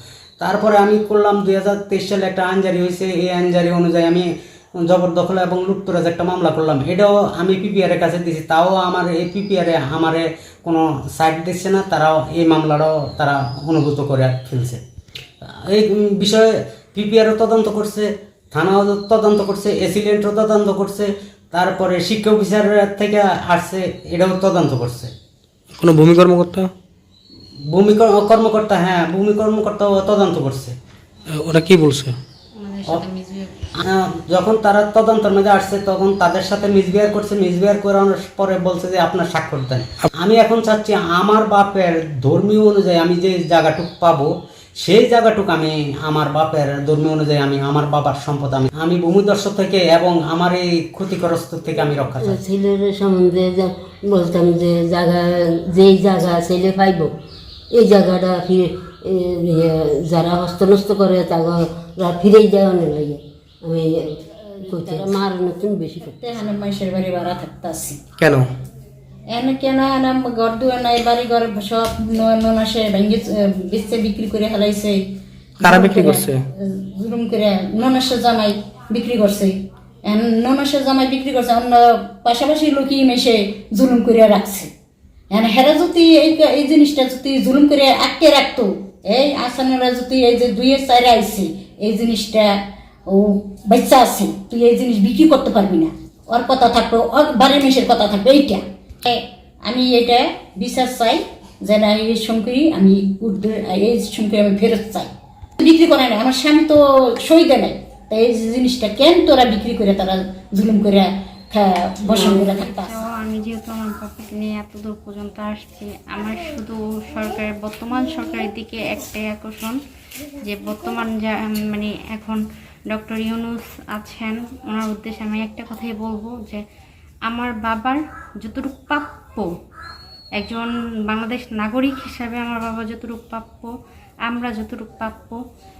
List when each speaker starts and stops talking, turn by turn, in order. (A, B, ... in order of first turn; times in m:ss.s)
0:00.4-0:14.8 A
0:15.5-0:25.1 A
0:25.7-0:26.7 B
0:27.7-0:30.8 A
0:31.3-0:32.2 B
0:32.6-0:33.6 C
0:33.8-0:52.4 A
0:52.2-0:57.1 D
0:57.7-1:06.2 D
1:06.2-1:08.0 E
1:08.2-1:08.5 B
1:09.3-1:15.0 E
1:15.6-1:16.4 B
1:15.6-1:24.7 E
1:25.3-1:53.0 E
1:52.1-1:59.8 C
2:00.4-2:06.6 C
2:07.3-2:09.5 C
2:10.4-2:13.7 C
2:14.3-2:15.4 C